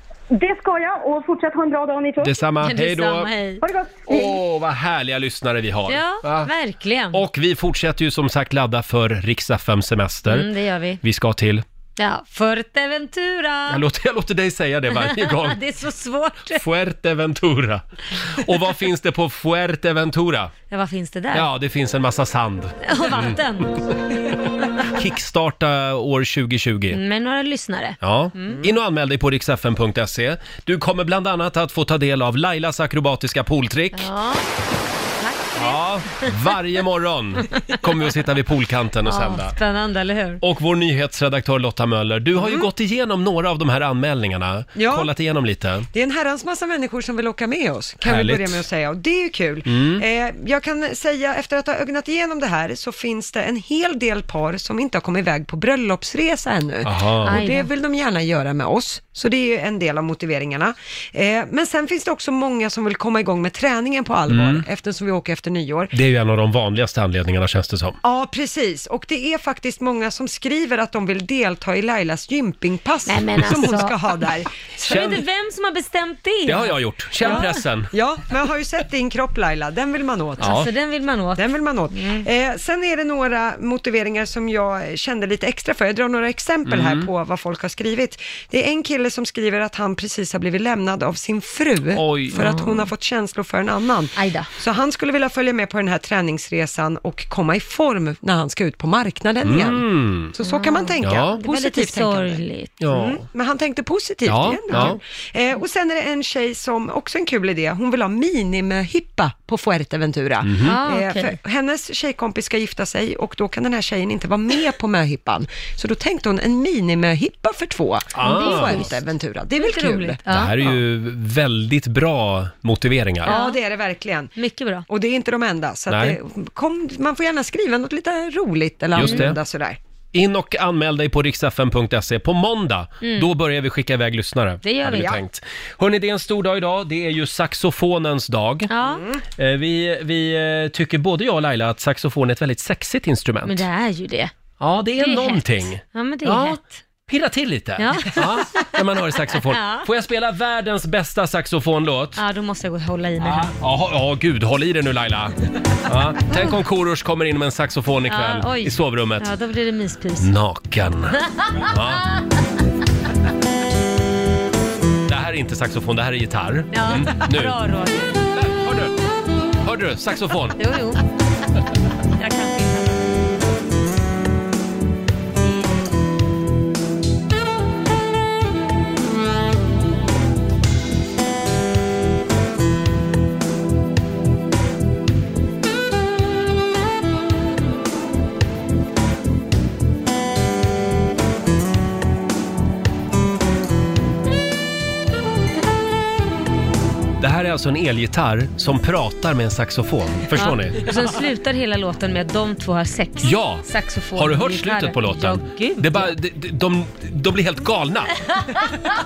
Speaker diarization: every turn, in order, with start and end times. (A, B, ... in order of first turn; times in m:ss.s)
0:00.3-0:02.4 A
0:02.2-0:03.3 B
0:02.6-0:03.6 C
0:03.6-0:04.4 A
0:04.1-0:06.5 B
0:05.9-0:07.2 C
0:07.1-0:10.5 B
0:10.2-0:11.0 C
0:11.0-0:11.6 B
0:12.0-0:13.8 C
0:13.7-0:15.6 B
0:14.9-0:16.6 C
0:16.5-0:20.5 B
0:20.7-0:21.5 C
0:21.3-0:23.4 B
0:22.8-0:23.8 C
0:24.9-0:27.0 B
0:26.9-0:28.6 C
0:28.0-0:34.1 B
0:33.9-0:34.4 C
0:35.2-0:36.6 C
0:35.6-0:39.5 B
0:39.0-0:40.4 C
0:40.4-0:45.9 B
0:42.4-0:42.7 D
0:44.8-0:45.1 D
0:45.9-1:05.9 D
0:48.0-0:48.6 B
0:49.6-0:50.0 B
0:56.8-0:57.4 B
0:57.2-0:57.7 C
1:04.3-1:04.6 B
1:05.9-1:08.0 B
1:08.0-1:15.1 D
1:13.1-1:14.0 C
1:14.8-1:15.2 B
1:14.8-1:17.6 C
1:16.4-1:17.9 B
1:17.2-1:20.6 D
1:20.4-1:22.2 C
1:20.4-1:20.7 B
1:21.4-2:00.2 D
1:26.6-1:27.1 B
1:31.9-1:32.4 B
1:32.3-1:32.9 C
1:34.2-1:34.5 C
1:39.4-1:40.3 B
1:40.4-1:42.7 C
1:41.0-1:41.4 B
1:42.8-1:43.2 B
1:44.2-1:45.0 B
1:50.4-1:50.8 B
1:50.6-1:51.3 C
1:58.1-1:58.9 B
1:58.2-1:58.9 C
1:59.6-2:00.7 C
2:00.3-2:03.3 B
2:03.2-2:04.3 D
2:03.3-2:03.6 C
2:04.4-2:04.9 C
2:04.9-2:09.8 D
2:05.9-2:06.2 B
2:09.0-2:09.4 B
2:09.0-2:09.2 C
2:10.1-2:18.7 B
2:13.0-2:13.3 C
2:14.6-2:15.2 C
2:18.7-2:19.0 C
2:19.4-2:23.6 B
2:23.4-2:24.3 C
2:24.6-2:32.2 B
2:25.0-2:26.8 C
2:27.8-2:28.7 C
2:29.3-2:29.8 C
2:32.2-2:33.5 C
2:33.2-2:35.3 B
2:35.8-2:39.3 B
2:38.1-2:40.3 C
2:40.2-2:42.0 B
2:41.2-2:41.7 C
2:45.1-2:47.6 B
2:46.7-2:48.2 C
2:48.3-2:48.9 B
2:49.6-2:50.6 B
2:50.6-2:51.0 C
2:52.2-2:53.0 C
2:55.4-2:55.8 C
3:17.2-3:20.8 B
3:20.4-3:26.1 C
3:23.2-3:28.2 B